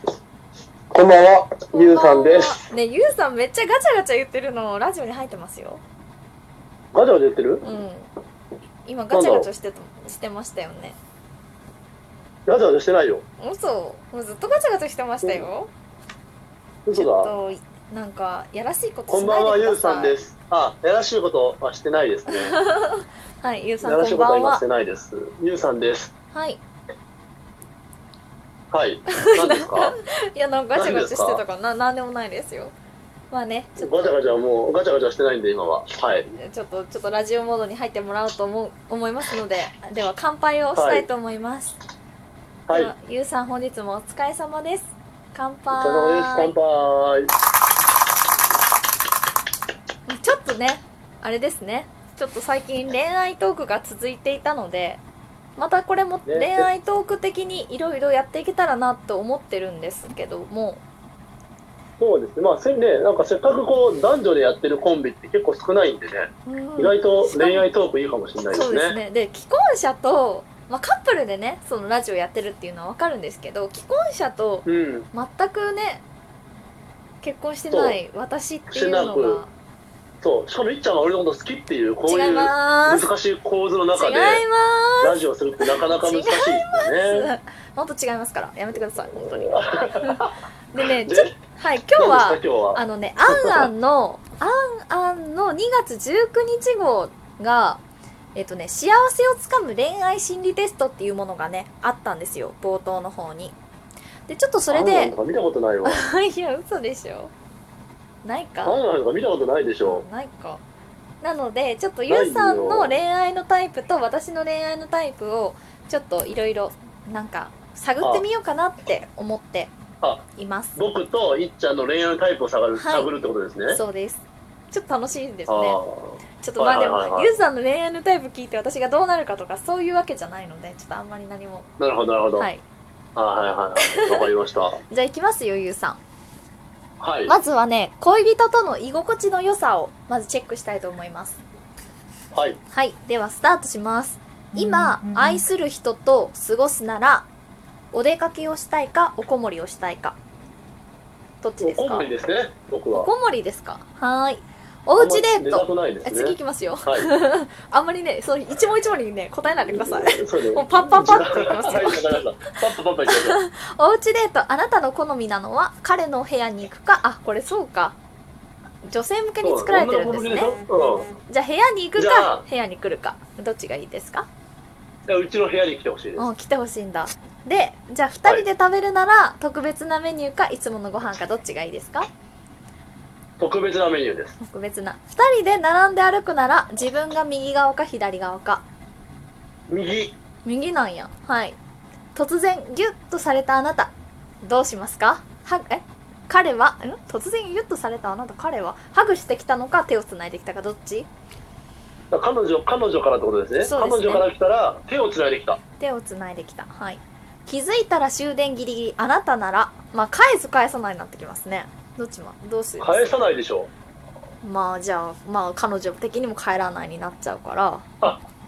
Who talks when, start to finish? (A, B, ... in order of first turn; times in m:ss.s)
0:00.9-0:02.6 A
0:01.7-0:05.8 B
0:06.9-0:07.6 A
0:07.6-0:08.1 B
0:08.8-0:11.0 B
0:09.1-0:09.5 A
0:12.5-0:13.2 A
0:13.4-0:15.7 B
0:15.2-0:15.5 A
0:16.9-0:17.3 A
0:17.0-0:20.2 B
0:19.1-0:22.6 A
0:22.3-0:24.6 B
0:23.8-0:26.1 A
0:26.3-0:26.6 B
0:28.7-0:30.0 A
0:29.2-0:32.8 B
0:30.8-0:31.4 A
0:33.3-0:34.1 B
0:33.8-0:36.3 A
0:36.4-0:41.8 B
0:40.8-0:41.1 A
0:42.7-0:42.9 A
0:42.7-0:46.5 B
0:45.7-0:47.3 A
0:50.1-0:55.0 B
0:55.6-1:00.8 B
0:56.3-0:56.7 A
1:02.0-1:09.0 A
1:06.5-1:07.7 B
1:08.5-1:16.0 B
1:14.7-1:15.1 A
1:17.2-1:19.5 B
1:17.7-1:18.0 A
1:18.7-1:19.4 A
1:20.2-1:24.4 A
1:22.1-1:23.1 B
1:23.9-1:37.8 B
1:25.0-1:27.3 A
1:29.2-1:31.4 A
1:32.0-1:33.7 A
1:38.4-1:43.6 B
1:44.3-1:45.2 B
1:44.7-1:46.0 A
1:45.8-1:47.3 B
1:48.2-1:48.8 B
1:48.6-1:50.0 A
1:49.8-1:50.6 B
1:51.2-1:59.7 B
1:52.1-1:53.0 A
2:00.4-2:00.8 B
2:00.8-2:03.8 A
2:02.8-2:03.1 B
2:03.7-2:05.8 B
2:05.5-2:07.4 A
2:06.4-2:11.7 B
2:11.8-2:12.5 A
2:12.4-2:12.6 B
2:13.2-2:14.8 A
2:13.8-2:14.3 B
2:14.9-2:16.0 B
2:17.0-2:17.4 A
2:17.3-2:21.4 B
2:22.3-2:22.6 A
2:22.7-2:27.3 B
2:27.9-2:30.2 B
2:31.4-2:32.1 B
2:31.6-2:33.1 A
2:32.9-2:42.3 B
2:35.0-2:37.1 A
2:39.7-2:43.4 A
2:43.1-2:48.0 B
2:48.9-2:50.6 B
2:49.4-2:51.1 A
2:51.3-2:54.3 B
2:52.0-2:52.4 A
2:55.1-2:56.3 A
2:56.2-3:02.1 B
3:03.4-3:04.4 A
3:04.4-3:08.6 B
3:09.7-3:10.2 A
3:10.4-3:11.6 B
3:12.2-3:21.1 B
3:22.1-3:25.6 A
3:23.6-3:24.3 B
3:25.8-3:33.1 B
3:32.8-3:33.7 A
3:34.4-3:37.9 B